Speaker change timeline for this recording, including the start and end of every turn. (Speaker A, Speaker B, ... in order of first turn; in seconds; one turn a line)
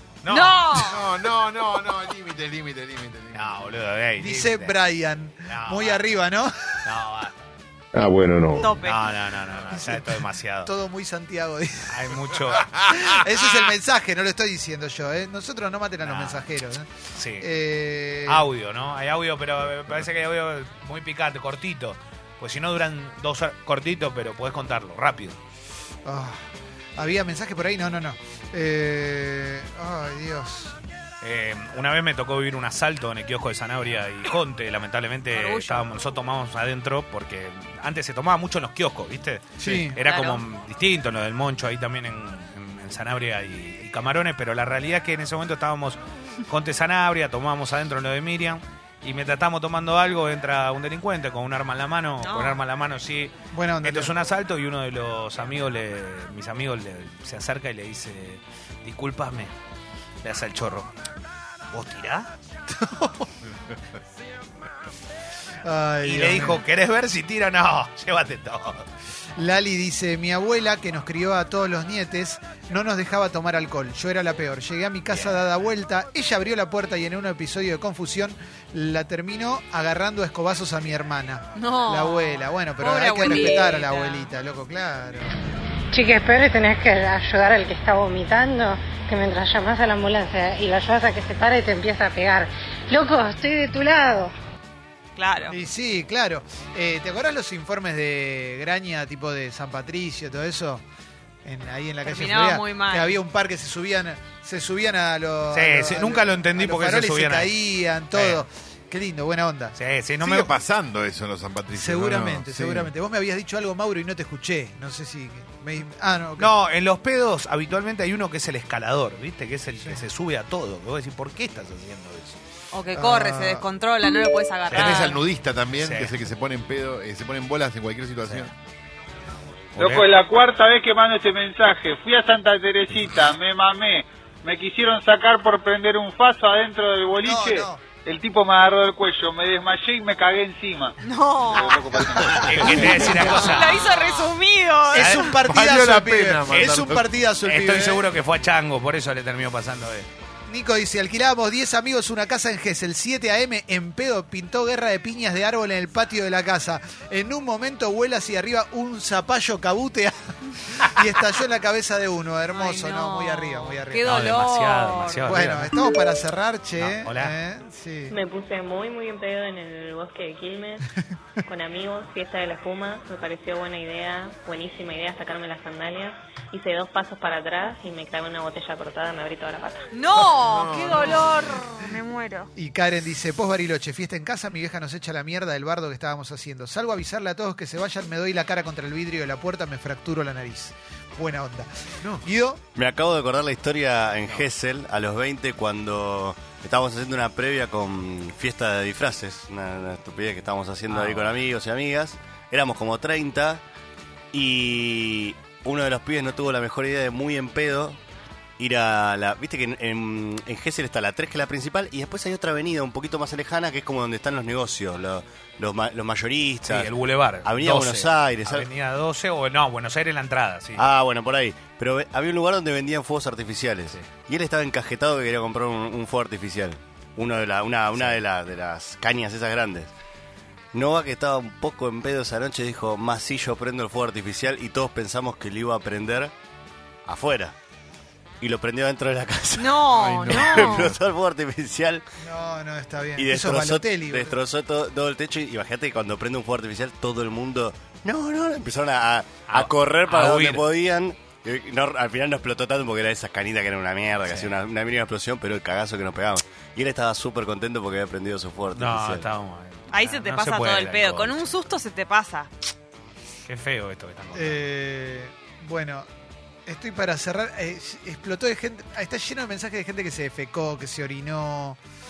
Speaker A: 0.2-0.9
Speaker B: 0.3-1.0
Speaker C: 0.8-3.8
Speaker A: 3.3-4.8
Speaker D: 4.2-6.8
Speaker A: 5.5-6.0
Speaker A: 6.8-7.4
Speaker C: 8.0-8.7
Speaker B: 8.6-9.0
Speaker A: 8.8-10.7
Speaker D: 9.7-12.0
Speaker A: 11.9-12.7
Speaker D: 12.7-16.9
Speaker A: 16.0-16.5
Speaker A: 17.1-17.4
Speaker D: 17.4-18.4
Speaker A: 18.3-25.4
Speaker D: 26.1-26.4
Speaker D: 26.9-30.8
Speaker A: 31.2-59.5
Speaker B: 35.3-35.9
Speaker D: 39.6-40.0
Speaker B: 40.0-40.4
Speaker B: 52.2-52.6
Speaker D: 53.5-54.1
Speaker A: 60.2-60.9
Speaker A: 61.7-62.3
Speaker D: 62.7-63.3
Speaker D: 65.6-66.6
Speaker A: 66.0-68.9
Speaker D: 69.4-85.3
Speaker A: 75.1-75.4
Speaker B: 81.5-84.3
Speaker E: 85.9-94.3
Speaker B: 95.2-95.6
Speaker D: 95.5-100.8
Speaker D: 101.4-109.8
Speaker B: 102.0-103.2
Speaker A: 105.5-107.5
Speaker A: 108.1-108.4
Speaker A: 109.7-110.5
Speaker C: 110.2-112.9
Speaker D: 111.7-116.5
Speaker A: 116.4-122.4
Speaker B: 122.7-125.2
Speaker D: 122.9-123.7
Speaker A: 124.7-125.1
Speaker C: 124.7-128.5
Speaker A: 125.8-126.2
Speaker A: 128.2-128.5
Speaker A: 129.8-130.1
Speaker F: 129.8-140.9
Speaker D: 137.2-137.8
Speaker B: 141.0-142.1
Speaker C: 141.5-142.8
Speaker F: 141.9-142.3
Speaker A: 142.3-143.8
Speaker B: 142.8-145.4
Speaker D: 144.9-148.1
Speaker A: 144.9-145.2
Speaker C: 145.4-147.1
Speaker A: 146.5-146.8
Speaker A: 147.4-150.1
Speaker D: 150.5-164.2
Speaker B: 162.5-165.4
Speaker A: 164.1-165.7
Speaker D: 165.3-168.2
Speaker A: 166.8-167.3
Speaker G: 168.1-170.9
Speaker G: 171.4-179.9
Speaker B: 179.9-182.5
Speaker C: 180.2-181.2
Speaker D: 182.6-192.6
Speaker H: 192.8-203.6
Speaker A: 200.9-201.3
Speaker H: 204.3-208.0
Speaker H: 208.6-216.9
Speaker A: 216.7-220.8
Speaker H: 217.4-218.7
Speaker H: 220.8-229.9
Speaker A: 227.9-228.2
Speaker H: 230.7-236.3
Speaker H: 237.1-237.5
Speaker H: 238.4-239.8
Speaker B: 239.6-240.9
Speaker C: 239.9-241.0
Speaker H: 240.4-242.0
Speaker D: 242.2-244.3
Speaker H: 243.2-259.3
Speaker A: 249.5-250.6
Speaker A: 254.2-254.5
Speaker A: 258.7-261.4
Speaker B: 259.9-262.5
Speaker A: 263.5-264.6
Speaker D: 264.3-266.1
Speaker D: 266.6-271.8